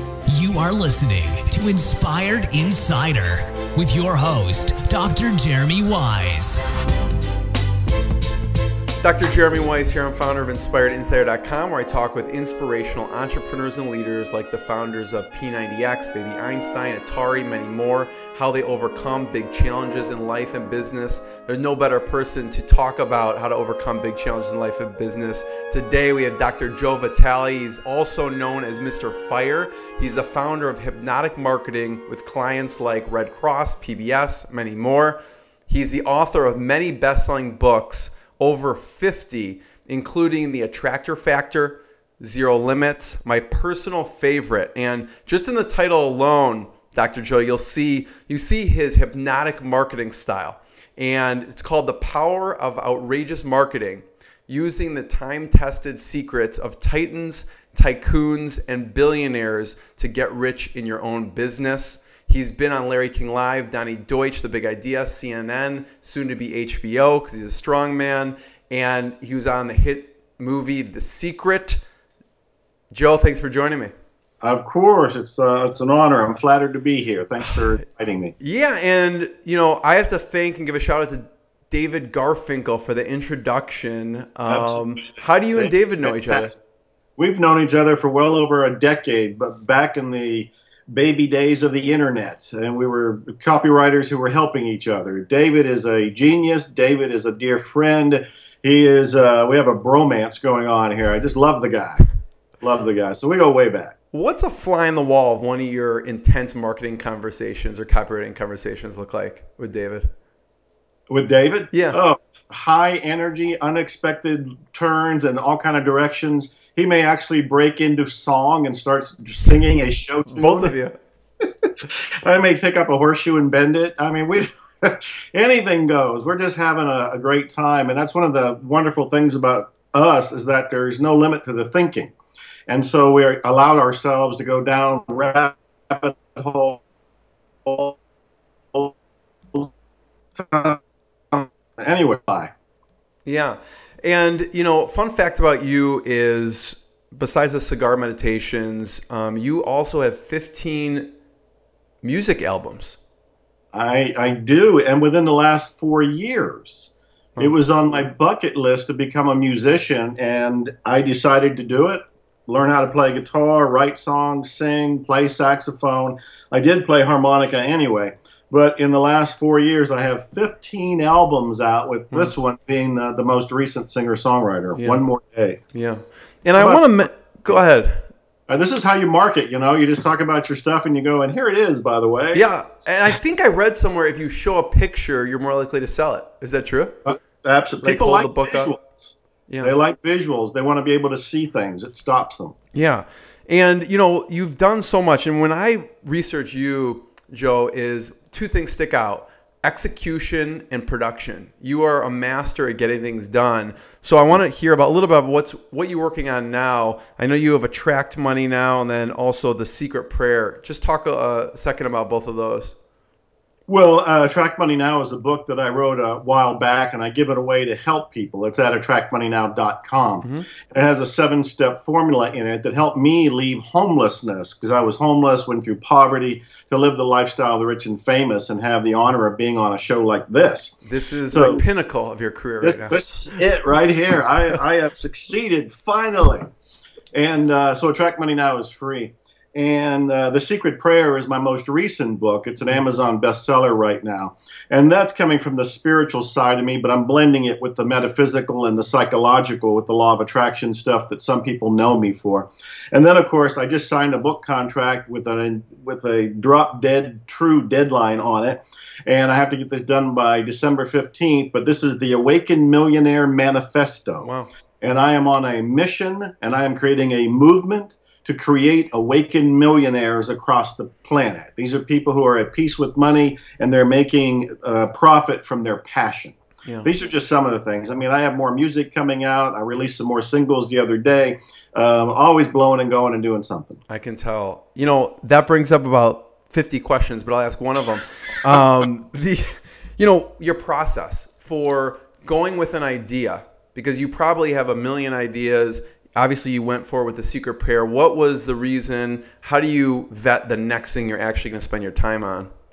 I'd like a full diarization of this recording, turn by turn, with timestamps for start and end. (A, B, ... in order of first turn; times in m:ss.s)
0:00.3-0:06.6 A
0:09.0-1:11.8 B
1:12.9-1:13.9 B
1:14.4-1:18.3 C
1:18.4-1:26.5 B
1:24.5-1:26.6 C
1:27.2-1:42.0 C
1:42.6-1:43.9 C
1:44.1-1:50.1 B
1:51.1-2:00.7 C
1:51.7-1:52.0 B
2:00.3-2:01.0 B
2:01.4-2:12.1 C
2:12.7-2:16.8 C
2:17.6-2:18.0 C
2:20.4-2:22.5 C
2:23.2-2:31.1 B
2:32.0-2:33.0 B
2:33.7-2:55.6 C
2:54.8-2:55.0 B
2:55.7-2:58.1 B
2:56.6-2:57.0 C
2:58.5-3:02.4 C
3:02.3-3:07.0 B
3:07.0-3:12.6 C
3:07.8-3:08.7 B
3:09.5-3:09.7 B
3:12.7-3:32.7 B
3:33.7-3:50.8 C
3:50.8-3:53.2 B
3:51.3-3:51.6 C
3:52.6-3:56.5 C
3:57.1-4:24.3 C
4:24.2-4:24.5 B
4:24.8-4:43.8 C
4:43.9-5:02.5 B